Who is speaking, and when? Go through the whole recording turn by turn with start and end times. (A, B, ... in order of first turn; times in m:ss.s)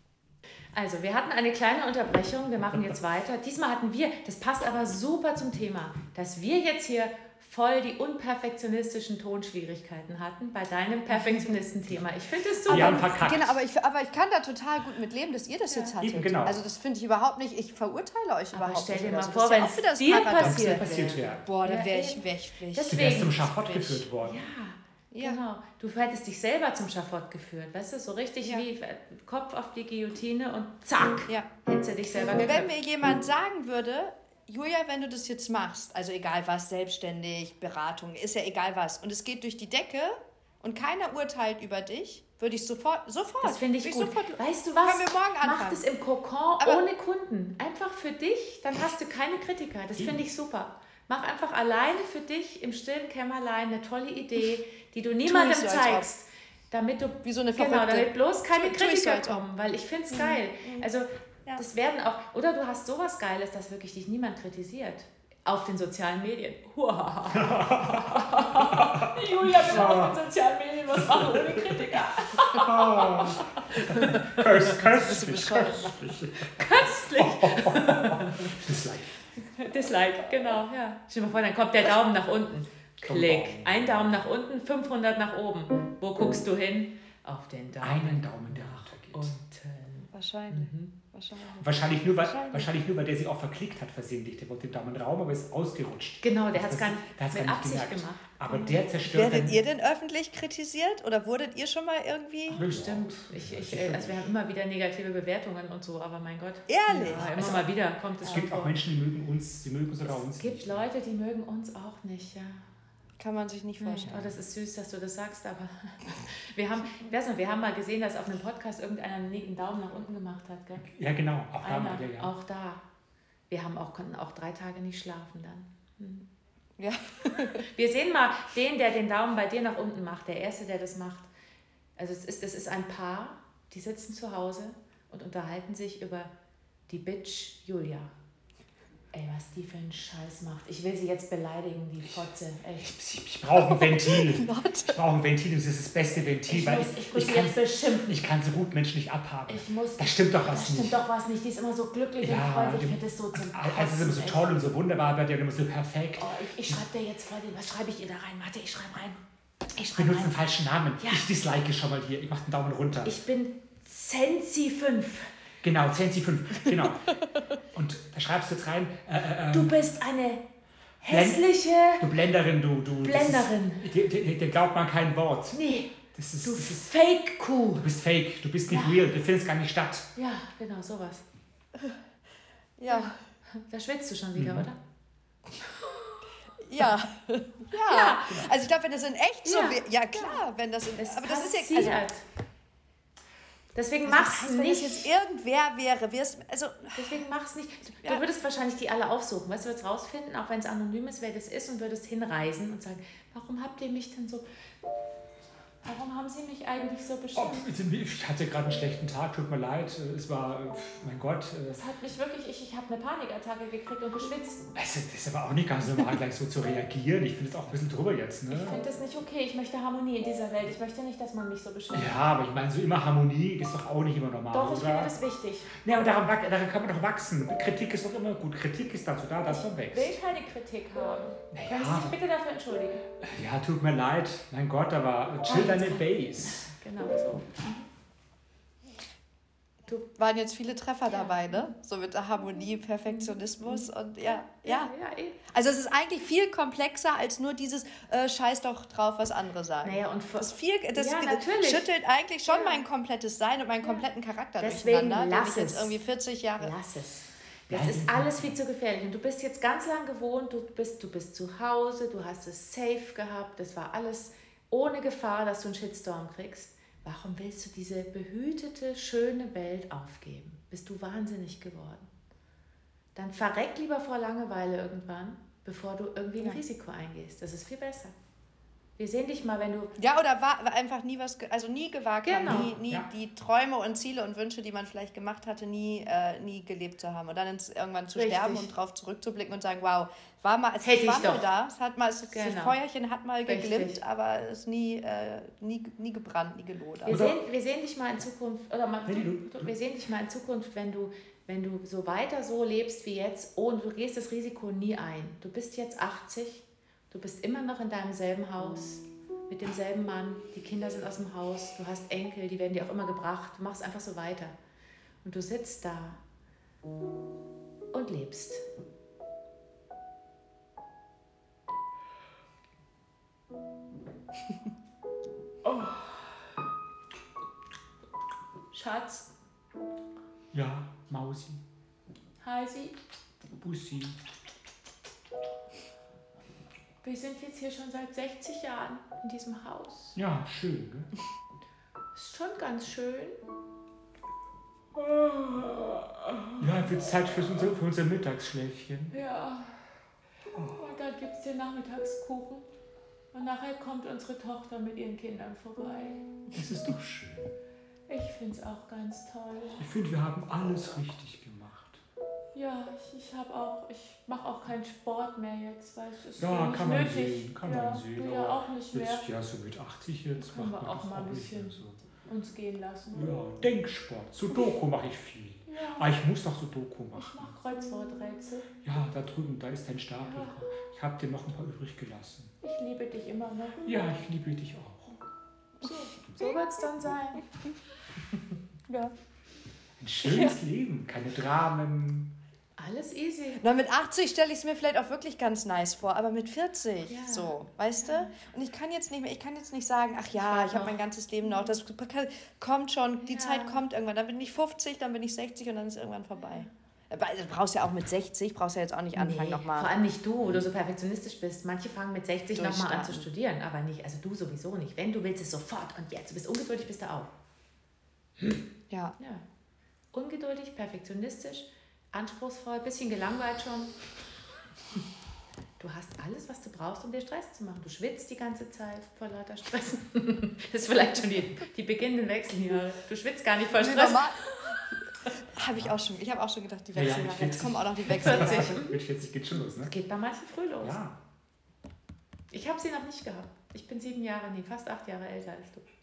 0:00.7-0:13.2 A
0:12.7-0:13.6 B
0:12.7-0:23.4 C
0:16.0-0:16.6 B
0:18.5-0:32.7 A
0:20.3-0:21.4 B
0:22.9-0:24.4 B
0:25.1-0:25.4 C
0:31.3-0:45.8 C
0:43.4-1:14.5 A
0:55.2-0:56.1 C
0:57.2-0:59.4 C
1:00.1-1:00.9 C
1:07.3-1:10.2 B
1:10.9-1:19.2 B
1:14.8-1:16.0 C
1:16.4-1:18.6 A
1:19.6-1:30.9 A
1:23.0-1:24.2 B
1:27.8-1:29.3 B
1:30.1-1:32.7 C
1:31.6-1:39.6 B
1:36.2-1:38.9 A
1:39.0-1:42.6 C
1:42.5-1:48.7 A
1:42.5-1:44.3 B
1:46.7-1:47.6 C
1:47.1-1:47.5 B
1:48.2-1:50.8 B
1:50.0-1:52.6 A
1:53.2-1:54.2 C
1:53.8-2:00.9 A
2:00.8-2:02.3 B
2:01.6-2:02.8 A
2:03.5-2:06.3 A
2:06.8-2:07.6 C
2:07.6-2:11.3 A
2:12.0-2:16.3 A
2:16.9-2:18.1 A
2:19.1-2:22.9 A
2:22.8-2:31.0 B
2:23.5-2:25.0 C
2:26.5-2:28.2 A
2:29.5-2:34.6 A
2:32.2-2:36.8 B
2:36.2-2:39.2 A
2:39.7-2:40.4 A
2:39.9-2:43.2 B
2:41.0-2:41.2 A
2:43.0-2:45.3 A
2:45.6-2:47.1 B
2:47.7-2:49.8 B
2:49.5-2:50.4 A
2:51.0-2:52.0 A
2:51.1-2:51.4 B
2:51.9-2:55.6 B
2:53.0-2:53.8 A
2:55.5-2:57.8 A
2:56.1-2:56.9 B
2:57.8-3:00.1 B
2:58.7-2:59.0 A
3:00.2-3:01.2 A
3:02.8-3:03.2 C
3:02.9-3:04.8 A
3:04.4-3:04.7 B
3:06.6-3:12.0 C
3:07.8-3:08.4 A
3:09.4-3:10.4 A
3:11.0-3:12.2 A
3:13.7-3:15.1 A
3:14.0-3:17.2 C
3:16.9-3:24.4 A
3:25.8-3:27.7 A
3:27.3-3:31.8 B
3:31.7-3:34.6 A
3:34.7-3:38.8 B
3:38.5-3:42.2 A
3:41.9-3:45.1 B
3:44.5-3:45.7 A
3:45.8-3:50.2 B
3:49.5-3:53.0 A
3:51.5-3:52.2 B
3:53.2-3:56.7 B
3:55.4-3:57.8 A
4:00.2-4:04.9 C
4:01.1-4:01.7 A
4:03.1-4:05.4 A
4:05.5-4:16.7 C
4:09.8-4:11.9 A
4:12.5-4:12.8 A
4:14.6-4:15.9 A
4:16.6-4:32.1 A
4:17.7-4:18.6 B
4:33.1-4:38.1 A
4:39.0-4:39.9 A
4:40.0-4:57.2 C
4:42.2-4:42.7 A
4:42.6-4:43.1 B
4:48.1-4:48.7 A
4:50.8-4:51.4 A
4:52.3-4:52.8 A
4:53.4-4:54.0 A
4:57.0-5:14.5 A
4:57.1-4:57.4 B
4:59.0-4:59.7 B
5:15.2-5:16.2 A
5:17.9-5:18.6 A
5:25.7-5:26.0 A
5:28.7-5:29.3 A
5:30.5-5:31.6 B
5:32.4-5:33.0 A
5:33.5-5:34.2 B
5:37.0-5:40.2 A
5:40.2-5:41.1 B
5:42.1-5:43.4 A
5:45.1-5:45.5 B
5:46.6-5:49.1 B
5:49.1-5:49.7 A
5:50.5-5:50.8 B
5:50.8-5:52.6 A
5:53.3-5:56.3 A
5:56.5-5:57.5 B
5:58.1-5:59.8 A
5:59.8-6:02.0 B
6:02.5-6:09.2 A
6:06.4-6:12.0 B
6:10.4-6:13.2 A
6:13.1-6:17.5 B
6:15.7-6:16.1 A
6:17.1-6:18.7 A
6:18.8-6:22.5 B
6:20.2-6:20.7 A
6:22.6-6:24.0 A
6:23.8-6:25.2 B
6:25.8-6:27.4 A
6:30.0-6:32.3 B
6:32.8-6:33.6 A
6:33.6-6:49.9 C
6:37.1-6:38.3 A
6:40.3-6:41.7 A
6:43.2-6:43.8 A
6:49.1-6:57.3 A
6:52.5-6:53.2 C
6:58.9-6:59.1 C
6:59.2-6:59.4 A
7:00.1-7:03.9 A
7:05.8-7:14.8 A
7:13.8-7:15.0 C
7:15.5-7:18.8 C
7:16.9-7:19.9 B
7:18.1-7:19.0 A
7:19.8-7:21.0 A
7:20.8-7:21.2 B
7:22.5-7:25.8 A